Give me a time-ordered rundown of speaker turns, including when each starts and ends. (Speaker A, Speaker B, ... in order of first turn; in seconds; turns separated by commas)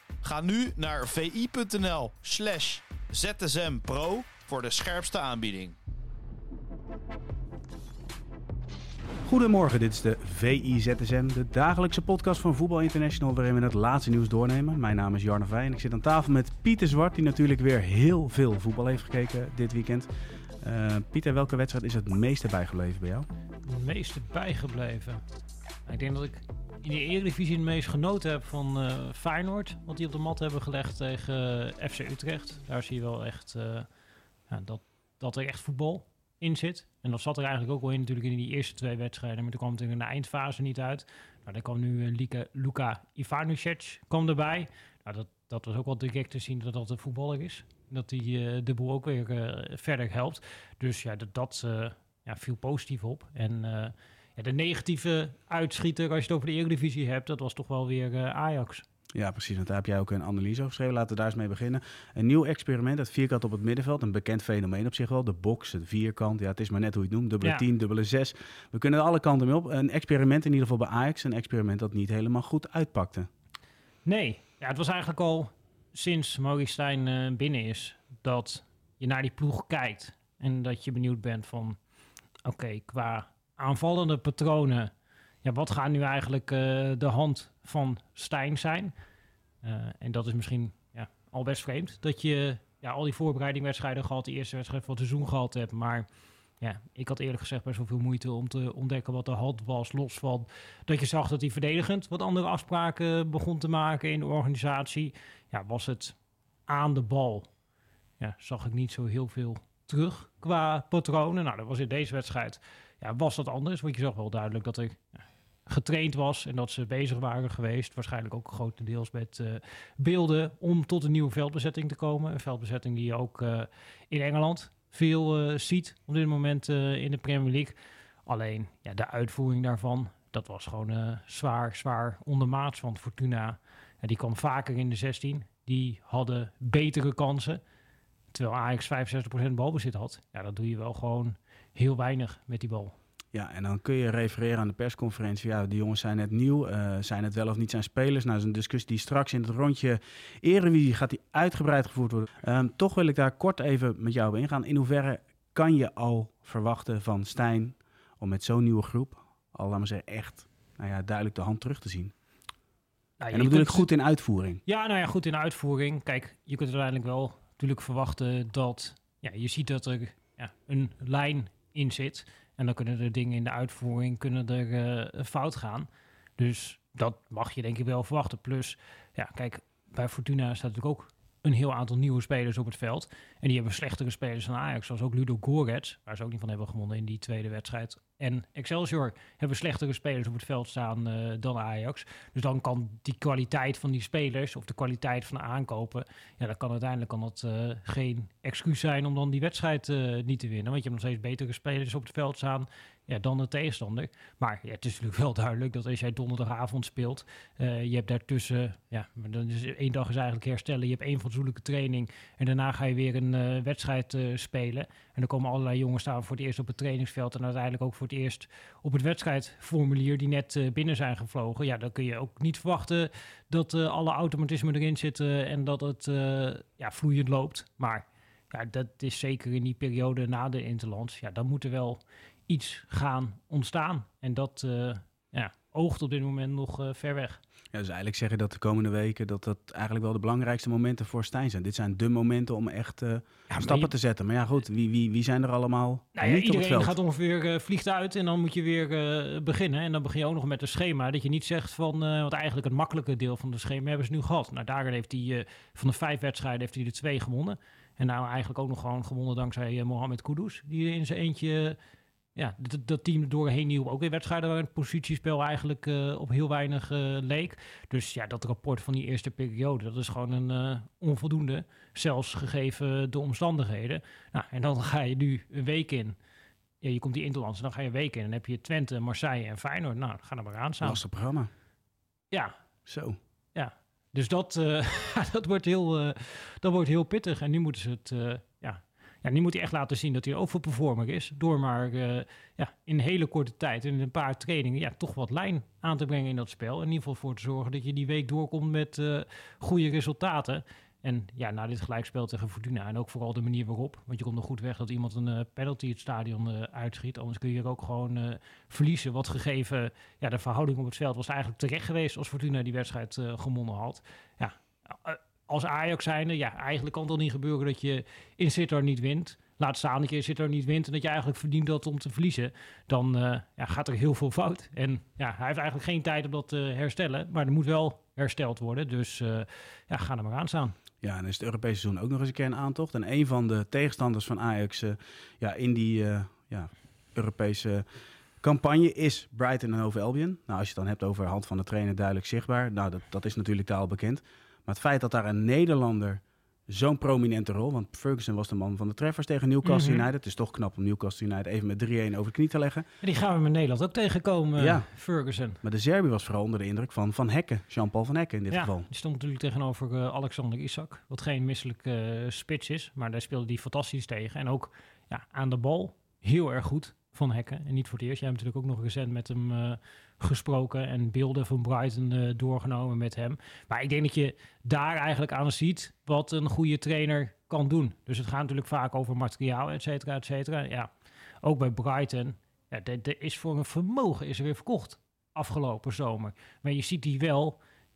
Speaker A: 0.2-5.8, Speaker B: 9.3-20.1, Speaker B: 20.6-23.3, Speaker C: 23.6-25.2, Speaker C: 25.9-33.9, Speaker C: 34.5-58.9, Speaker B: 59.1-73.3, Speaker C: 74.0-81.8, Speaker C: 82.4-84.9, Speaker C: 85.4-88.9, Speaker C: 89.6-96.1, Speaker C: 96.6-107.5, Speaker C: 108.2-115.1, Speaker C: 115.7-137.6, Speaker C: 138.3-142.9, Speaker B: 143.3-162.1, Speaker C: 163.2-163.9, Speaker B: 163.3-164.6, Speaker C: 164.7-237.4, Speaker B: 237.7-247.0, Speaker C: 243.5-243.9, Speaker C: 246.2-261.8, Speaker C: 262.4-276.2, Speaker C: 276.8-281.0, Speaker B: 280.8-281.5, Speaker B: 282.9-283.2, Speaker C: 283.6-330.8, Speaker B: 331.0-337.9, Speaker B: 338.4-352.9, Speaker C: 349.6-350.1, Speaker C: 353.0-355.6, Speaker B: 354.6-354.9, Speaker B: 355.6-358.9, Speaker C: 358.5-380.9, Speaker C: 381.4-387.6